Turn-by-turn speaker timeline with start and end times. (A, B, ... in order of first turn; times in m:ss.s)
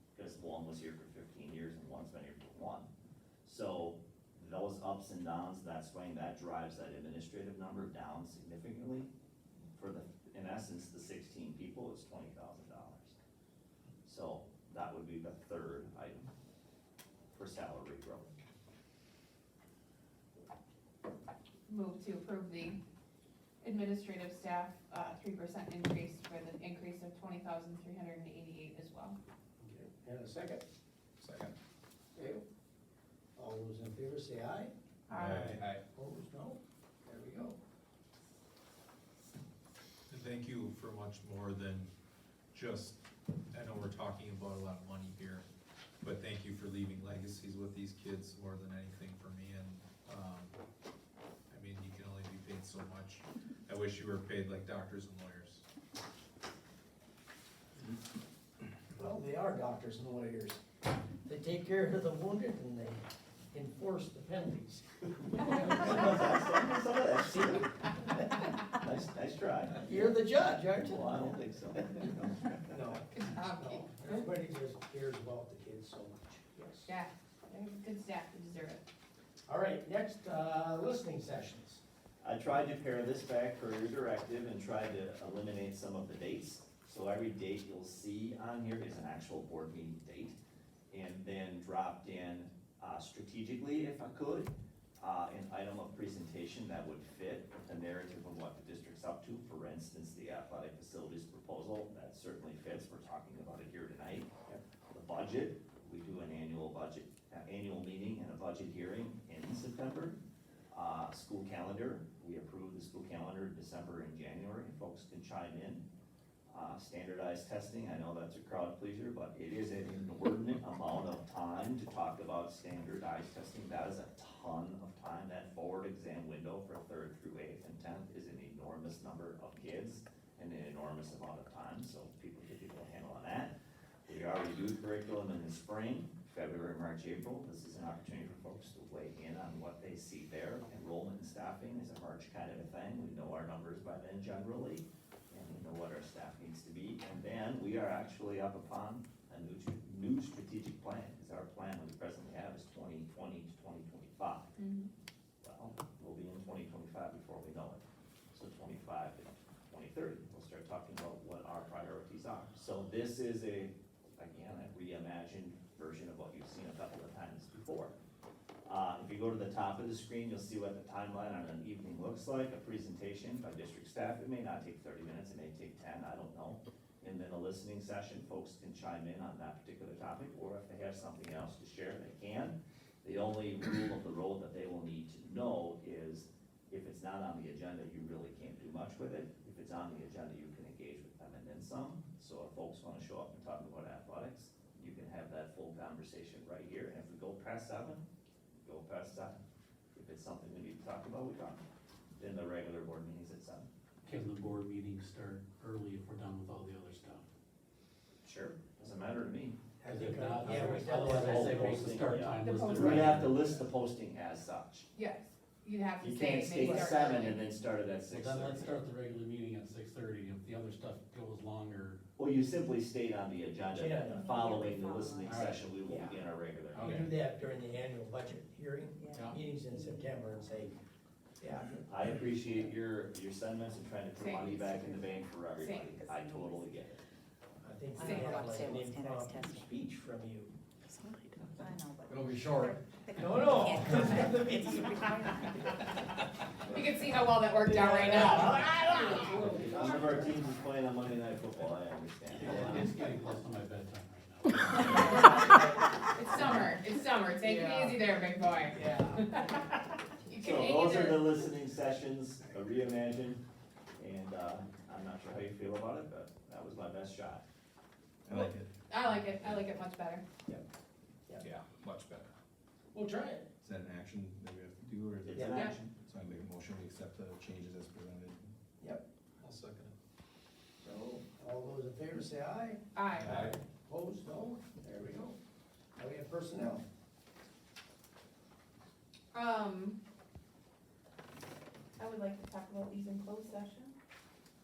0:00.2-0:02.9 A
0:03.4-0:09.1 A
0:09.8-0:13.2 A
0:14.0-0:16.3 A
0:17.3-0:18.3 A
0:21.7-0:22.8 B
0:23.6-0:29.2 B
0:29.7-0:30.6 C
0:31.2-0:31.5 D
0:32.2-0:32.4 C
0:33.4-0:34.7 C
0:35.1-0:35.6 B
0:35.1-0:35.7 E
0:35.5-0:37.6 C
0:40.1-0:41.9 E
0:42.5-0:43.0 E
0:43.5-0:45.5 E
0:46.0-0:50.6 E
0:51.5-0:55.6 E
0:59.0-1:00.6 C
1:01.3-1:06.4 C
1:05.5-1:07.7 A
1:07.2-1:08.5 C
1:08.7-1:10.2 A
1:09.8-1:11.4 C
1:10.8-1:12.6 A
1:12.7-1:13.1 C
1:13.1-1:14.2 B
1:13.6-1:16.9 C
1:16.9-1:18.8 B
1:19.5-1:21.8 C
1:22.2-1:30.4 A
1:30.9-1:44.3 A
1:44.9-1:50.2 A
1:50.7-1:55.8 A
1:56.5-2:13.5 A
2:14.1-2:34.5 A
2:34.6-2:34.9 B
2:35.4-2:48.0 A
2:48.7-3:18.0 A
3:18.6-3:19.4 A
3:20.0-3:21.6 A
3:22.2-3:23.7 A
3:24.0-3:27.2 F
3:28.2-3:29.6 A
3:29.8-3:32.3 C
3:29.9-3:33.4 F
3:30.5-3:34.9 A
3:32.4-3:33.2 B
3:34.9-3:37.4 B
3:36.0-3:38.8 A
3:36.6-3:37.0 C
3:38.1-3:42.0 F
3:42.2-3:47.1 A
3:43.7-3:44.3 C
3:44.0-3:45.6 G
3:45.2-3:45.7 F
3:45.9-3:46.2 C
3:46.7-3:47.1 F
3:46.8-3:50.8 C
3:49.0-3:50.2 G
3:49.1-3:49.4 F
3:51.4-3:51.8 C
3:51.9-3:57.0 A
3:54.2-3:56.8 G
3:54.2-3:54.6 B
3:55.6-3:56.0 B
3:57.6-4:00.5 C
3:58.0-3:59.7 G
3:58.0-3:58.4 B
4:01.5-4:05.9 G
4:02.1-4:05.7 C
4:06.7-4:10.1 B
4:07.6-4:10.4 C
4:09.4-4:13.0 A
4:09.5-4:09.9 G
4:12.4-4:15.2 F
4:12.5-4:12.8 C
4:14.8-4:16.7 C
4:14.9-4:15.3 B
4:16.1-4:19.7 B
4:16.7-4:16.9 G
4:17.4-4:18.0 C
4:18.7-4:19.3 C
4:20.3-4:21.3 B
4:20.4-4:23.4 A
4:24.0-4:27.4 A
4:28.2-4:28.7 D
4:28.9-4:30.2 B
4:31.4-4:32.3 E
4:32.9-4:33.5 C
4:33.6-4:38.5 D
4:35.2-4:35.9 A
4:35.3-4:35.7 C
4:35.5-4:35.8 B
4:38.8-4:39.0 C
4:39.4-4:39.9 E
4:40.8-4:45.4 C
4:42.9-4:43.4 B
4:46.0-4:46.8 C
4:49.3-4:50.0 B
4:52.0-4:53.9 B